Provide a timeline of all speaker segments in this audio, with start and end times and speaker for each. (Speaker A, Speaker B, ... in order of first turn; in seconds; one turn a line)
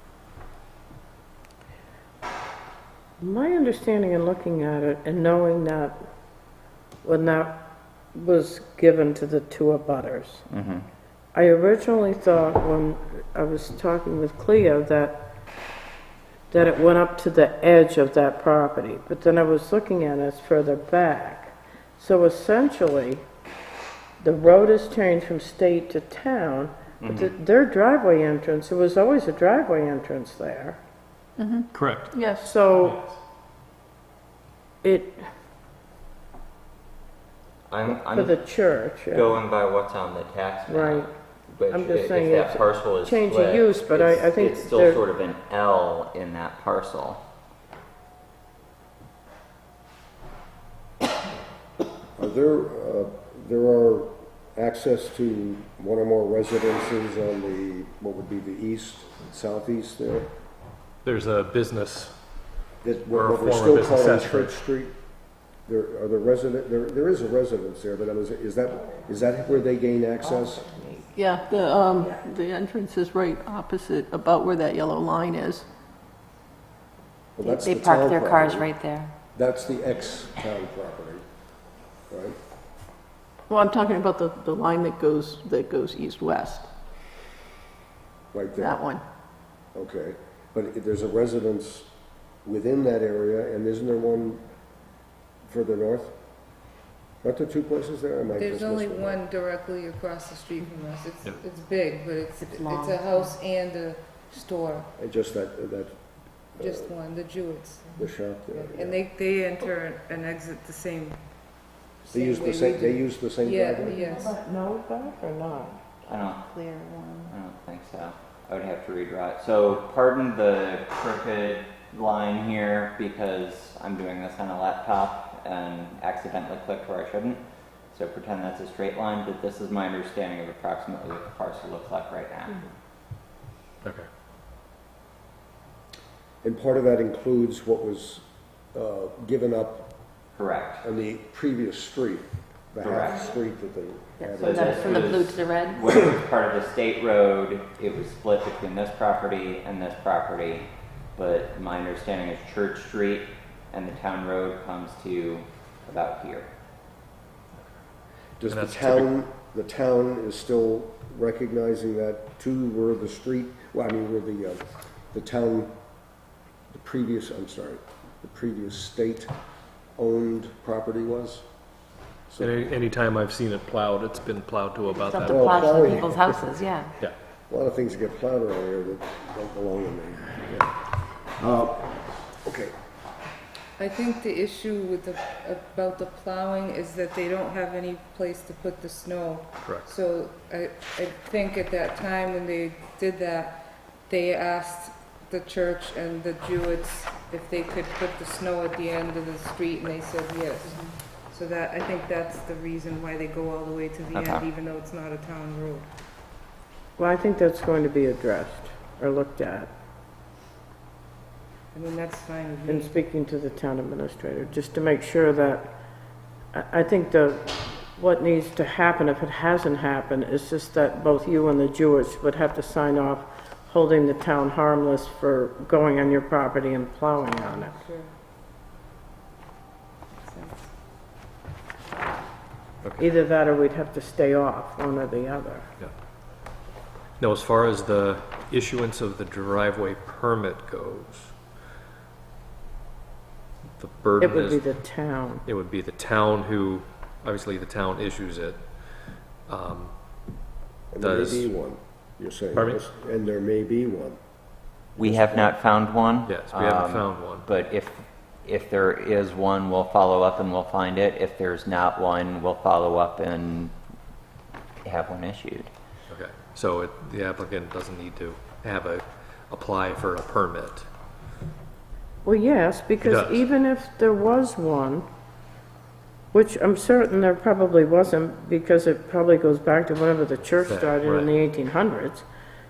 Speaker A: 3.2-6.0
Speaker A: 7.0-7.6
Speaker A: 8.1-10.4
Speaker B: 10.5-10.9
Speaker A: 11.3-15.3
Speaker A: 16.5-23.2
Speaker A: 24.2-30.8
Speaker B: 27.0-27.3
Speaker C: 31.4-32.5
Speaker D: 31.7-32.1
Speaker A: 32.4-33.0
Speaker D: 32.8-33.1
Speaker A: 34.8-35.2
Speaker B: 37.7-38.5
Speaker A: 38.1-39.4
Speaker B: 39.1-47.2
Speaker A: 40.7-41.1
Speaker A: 41.7-45.0
Speaker E: 52.2-60.3
Speaker D: 61.0-62.4
Speaker E: 62.8-65.0
Speaker D: 63.1-64.6
Speaker E: 65.7-70.7
Speaker A: 70.6-71.1
Speaker C: 71.2-75.7
Speaker E: 77.4-78.7
Speaker F: 77.4-79.1
Speaker E: 79.3-81.2
Speaker E: 82.1-82.4
Speaker C: 83.5-86.7
Speaker E: 88.3-88.8
Speaker C: 88.6-89.0
Speaker E: 89.7-91.9
Speaker E: 92.4-94.5
Speaker E: 95.5-96.2
Speaker E: 97.2-99.2
Speaker G: 98.4-104.9
Speaker F: 102.4-103.3
Speaker E: 105.0-106.0
Speaker E: 106.6-106.9
Speaker G: 106.6-108.0
Speaker E: 108.0-109.0
Speaker G: 108.5-114.4
Speaker E: 112.1-114.0
Speaker A: 113.9-115.8
Speaker B: 116.1-116.5
Speaker B: 117.3-132.6
Speaker D: 133.8-134.1
Speaker E: 136.4-139.9
Speaker B: 140.4-140.8
Speaker E: 140.8-145.2
Speaker B: 142.8-143.2
Speaker F: 144.2-145.8
Speaker B: 144.4-156.5
Speaker E: 158.4-165.7
Speaker D: 158.5-159.1
Speaker E: 166.7-169.3
Speaker E: 170.0-171.5
Speaker E: 172.3-172.6
Speaker D: 172.4-175.9
Speaker F: 174.9-176.9
Speaker E: 175.2-176.6
Speaker E: 177.5-182.7
Speaker G: 183.8-205.9
Speaker B: 204.1-204.4
Speaker A: 207.0-209.7
Speaker G: 211.7-213.0
Speaker A: 212.7-215.7
Speaker A: 216.5-227.8
Speaker G: 227.3-228.1
Speaker G: 230.2-230.7
Speaker A: 233.0-235.7
Speaker D: 237.2-241.4
Speaker D: 243.8-244.7
Speaker A: 244.2-245.4
Speaker D: 245.5-248.7
Speaker D: 249.5-250.0
Speaker E: 250.9-254.2
Speaker D: 251.0-251.5
Speaker D: 252.5-252.8
Speaker E: 254.9-255.6
Speaker B: 255.0-263.7
Speaker D: 256.3-257.5
Speaker B: 264.8-265.7
Speaker D: 266.1-270.9
Speaker A: 272.2-275.1
Speaker D: 273.0-273.5
Speaker A: 276.3-282.2
Speaker D: 280.6-281.4